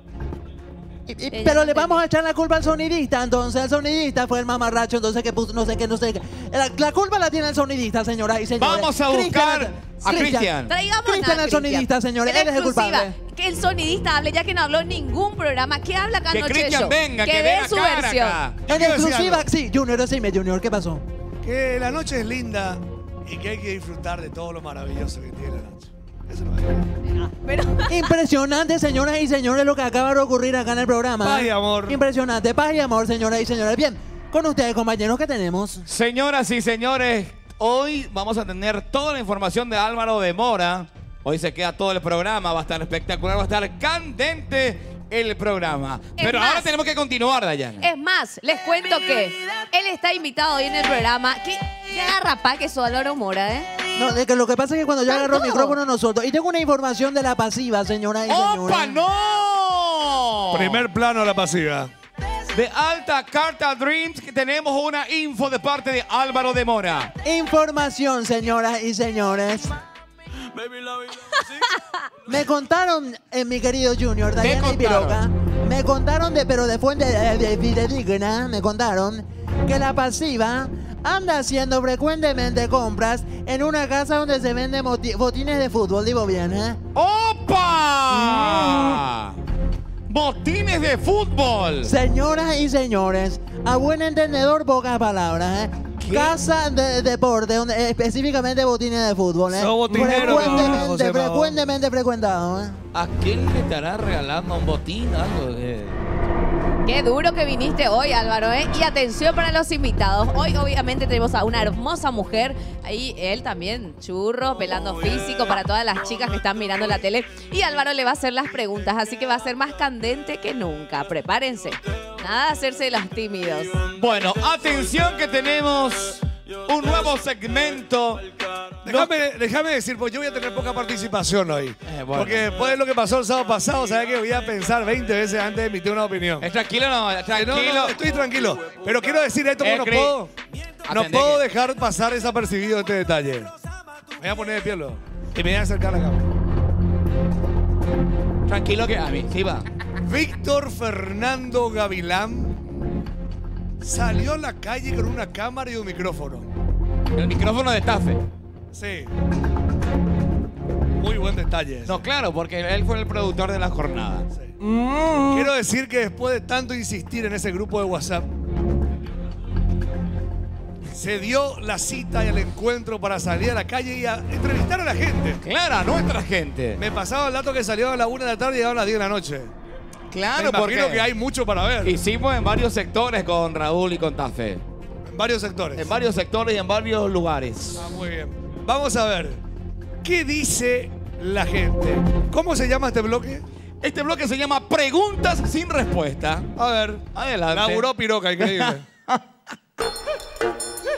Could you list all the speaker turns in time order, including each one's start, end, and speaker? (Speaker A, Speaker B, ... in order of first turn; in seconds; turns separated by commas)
Speaker A: 1.1-13.1, Speaker B: 1.3-2.0, Speaker C: 8.6-10.7, Speaker B: 10.7-18.4, Speaker C: 16.3-18.6, Speaker D: 18.7-19.4, Speaker A: 18.7-21.0, Speaker D: 21.4-26.8, Speaker B: 27.2-28.1, Speaker A: 27.9-35.9, Speaker D: 31.2-32.0, Speaker C: 35.9-47.9, Speaker B: 46.2-46.7, Speaker B: 47.8-53.7, Speaker A: 53.9-59.0, Speaker B: 55.1-55.8, Speaker C: 58.3-60.8, Speaker D: 60.5-61.9, Speaker C: 62.5-67.1, Speaker A: 67.2-69.7, Speaker A: 72.3-86.8, Speaker C: 74.4-75.2, Speaker C: 86.9-89.4, Speaker C: 90.1-91.9, Speaker A: 91.8-102.8, Speaker C: 96.0-96.3, Speaker D: 99.5-101.5, Speaker C: 100.2-100.7, Speaker C: 102.9-106.0, Speaker B: 106.8-123.7, Speaker C: 123.9-128.2, Speaker D: 128.8-136.5, Speaker C: 128.8-129.1, Speaker C: 131.8-132.5, Speaker C: 136.4-138.0, Speaker D: 137.3-140.3, Speaker C: 139.6-140.2, Speaker C: 140.9-141.4, Speaker D: 140.9-143.5, Speaker D: 144.2-146.2, Speaker C: 148.5-149.6, Speaker D: 150.0-152.6, Speaker D: 153.8-156.5, Speaker C: 157.2-158.2, Speaker D: 158.7-159.1, Speaker D: 161.0-161.9, Speaker C: 161.8-164.3, Speaker D: 165.3-168.3, Speaker D: 170.9-175.4, Speaker C: 175.4-176.8, Speaker D: 176.8-179.5, Speaker C: 180.1-181.1, Speaker D: 180.3-182.0, Speaker C: 181.8-184.6, Speaker D: 185.0-185.9, Speaker C: 185.8-187.8, Speaker D: 187.8-189.4, Speaker D: 190.0-193.4, Speaker C: 193.8-196.5, Speaker D: 196.6-198.8, Speaker C: 197.1-197.9, Speaker C: 198.4-199.2